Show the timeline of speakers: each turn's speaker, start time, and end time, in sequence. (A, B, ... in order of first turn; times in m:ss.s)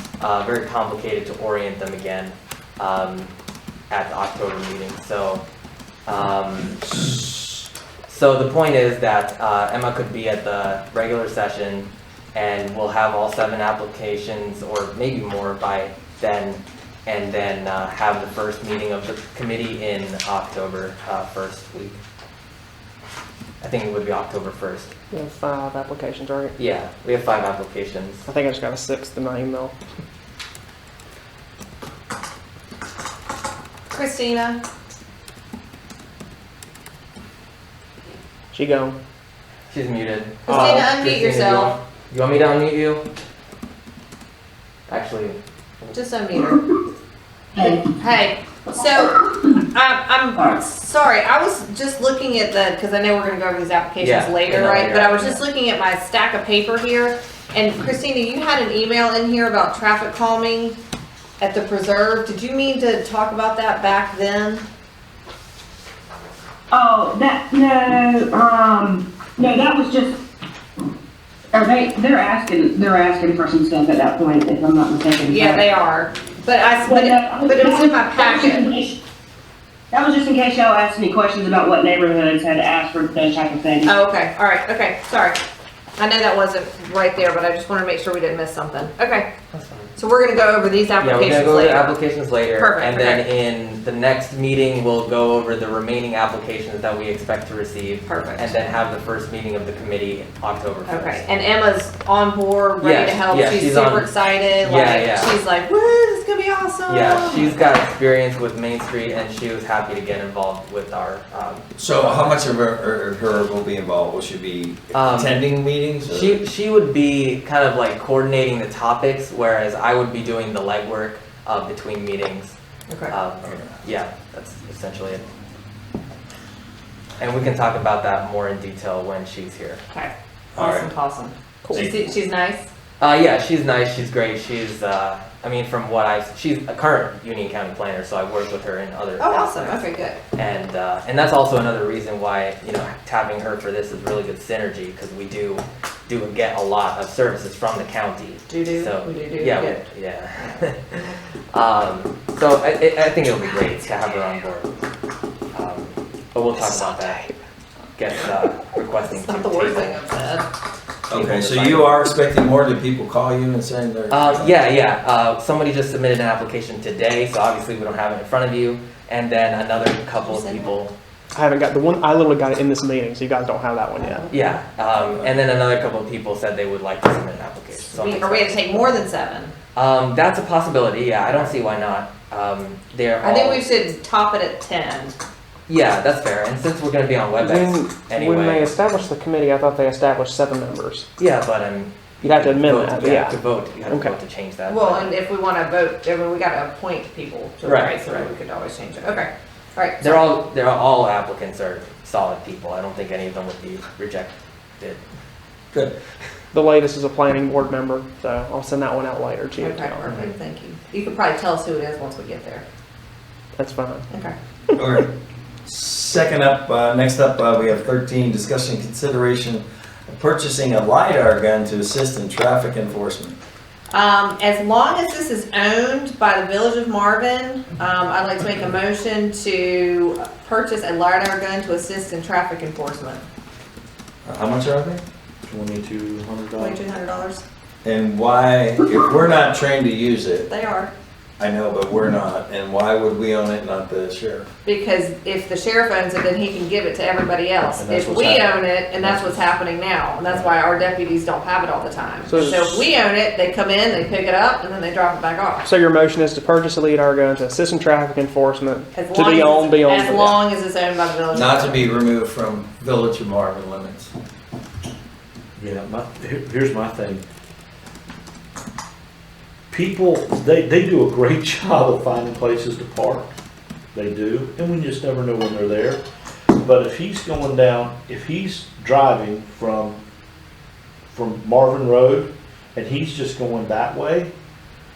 0:00.2-0:03.3 A
0:03.9-0:05.4 A
0:06.1-0:06.8 A
0:08.1-0:22.0 A
0:23.6-0:24.9 A
0:25.1-0:26.6 B
0:26.6-0:28.2 A
0:28.2-0:29.7 B
0:33.9-0:34.6 C
0:38.5-0:38.9 B
0:39.7-0:43.0 A
0:40.4-0:41.7 C
0:44.9-0:45.9 A
0:45.9-0:46.6 C
0:47.6-1:00.8 C
0:54.0-0:55.4 A
1:01.4-1:04.6 C
1:06.7-1:10.1 D
1:11.6-1:15.6 D
1:15.3-1:18.7 C
1:16.9-1:18.9 D
1:19.9-1:23.9 D
1:23.8-1:25.4 C
1:26.0-1:29.3 C
1:29.5-1:29.9 A
1:30.0-1:31.9 C
1:31.0-1:41.2 A
1:32.6-1:33.2 C
1:38.0-1:38.5 C
1:40.9-1:47.6 C
1:42.8-1:45.3 A
1:46.9-1:52.2 A
1:51.8-1:56.4 E
1:54.9-1:55.4 A
1:56.1-2:02.5 A
2:03.1-2:05.2 A
2:07.2-2:09.8 A
2:09.9-2:12.7 C
2:10.5-2:10.9 E
2:11.6-2:11.9 B
2:13.0-2:19.8 A
2:19.2-2:20.2 C
2:20.3-2:34.7 A
2:28.5-2:29.8 C
2:35.5-2:37.2 A
2:36.6-2:37.3 B
2:38.0-2:40.0 A
2:39.2-2:40.5 C
2:41.1-2:44.5 E
2:41.1-2:41.9 A
2:44.1-2:50.9 A
2:50.2-2:50.7 C
2:51.3-2:54.2 B
2:54.0-2:54.5 C
2:54.3-2:58.9 A
2:58.0-2:59.5 C
2:59.8-3:03.6 A
3:03.2-3:05.2 C
3:05.7-3:08.7 A
3:07.4-3:11.1 B
3:11.2-3:15.1 A
3:12.2-3:14.1 B
3:14.7-3:20.4 C
3:17.6-3:18.0 A
3:20.0-3:25.0 A
3:26.5-3:30.1 B
3:29.6-3:32.6 C
3:33.5-3:34.1 B
3:34.1-3:34.3 C
3:34.8-3:35.1 E
3:35.6-3:43.4 E
3:43.9-3:53.2 C
3:54.2-3:55.0 E
3:55.4-3:56.8 F
3:56.6-3:57.4 C
3:57.8-4:00.5 E
4:00.5-4:00.9 C
4:01.4-4:04.5 E
4:04.6-4:15.6 C
4:07.7-4:09.4 F
4:10.2-4:10.5 F
4:12.2-4:12.9 B
4:15.6-4:20.4 B
4:18.9-4:21.9 C
4:21.3-4:24.1 E
4:25.6-4:27.2 F
4:29.7-4:33.3 F
4:33.9-4:36.0 F
4:36.6-4:40.0 F
4:41.1-4:44.3 F